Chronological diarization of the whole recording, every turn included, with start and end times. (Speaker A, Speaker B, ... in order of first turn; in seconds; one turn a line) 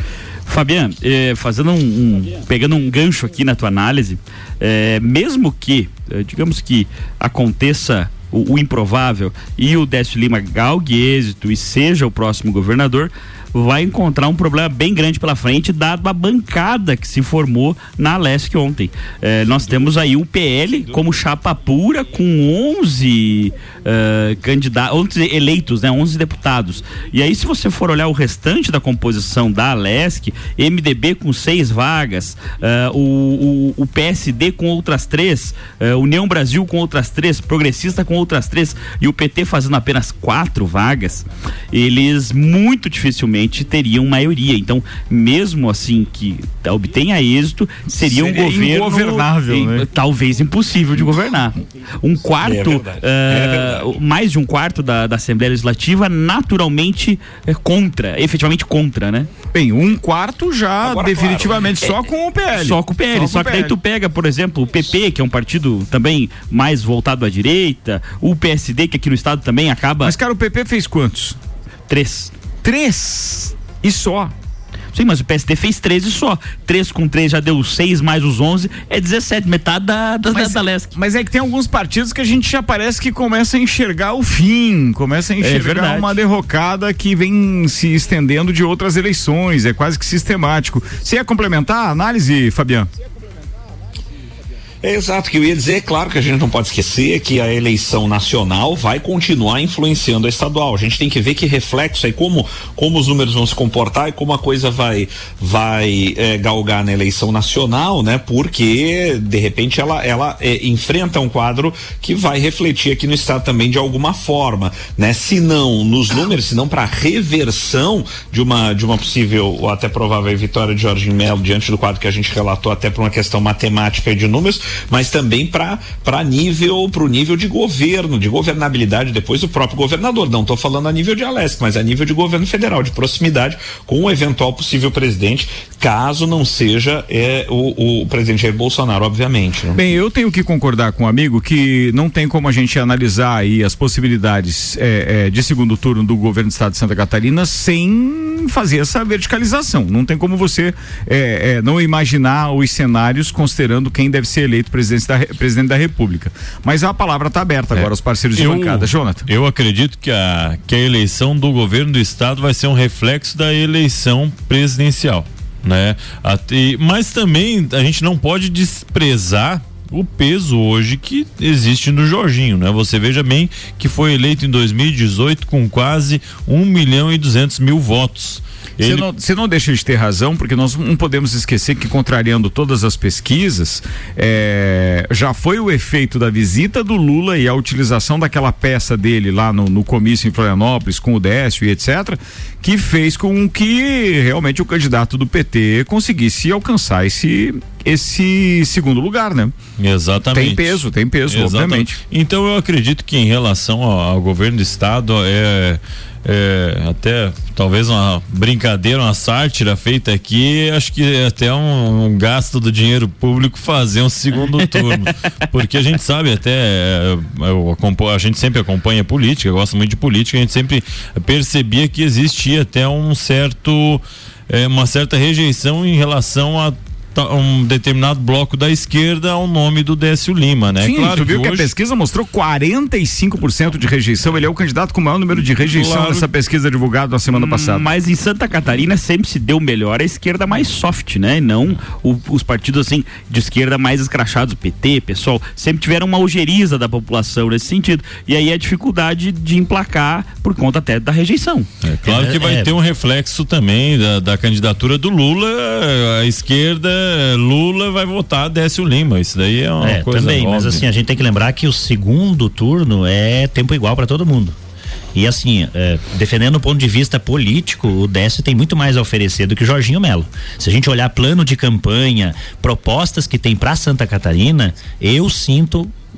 Speaker A: 0.5-59.3
Speaker B: 48.0-49.9
Speaker C: 52.4-54.0
Speaker B: 59.5-63.8
Speaker C: 60.8-61.6
Speaker A: 62.5-70.1
Speaker B: 70.0-71.4
Speaker A: 71.9-72.3
Speaker B: 72.6-74.3
Speaker A: 74.9-80.9
Speaker B: 80.3-92.9
Speaker A: 85.4-86.1
Speaker C: 94.8-139.8
Speaker B: 139.7-159.2
Speaker D: 157.7-179.1
Speaker B: 178.8-199.5
Speaker D: 199.8-231.7
Speaker B: 200.3-202.0
Speaker B: 230.8-237.8
Speaker D: 235.3-236.3
Speaker A: 237.3-251.7
Speaker D: 251.8-260.9
Speaker E: 252.0-252.7
Speaker E: 259.8-264.5
Speaker E: 265.1-275.9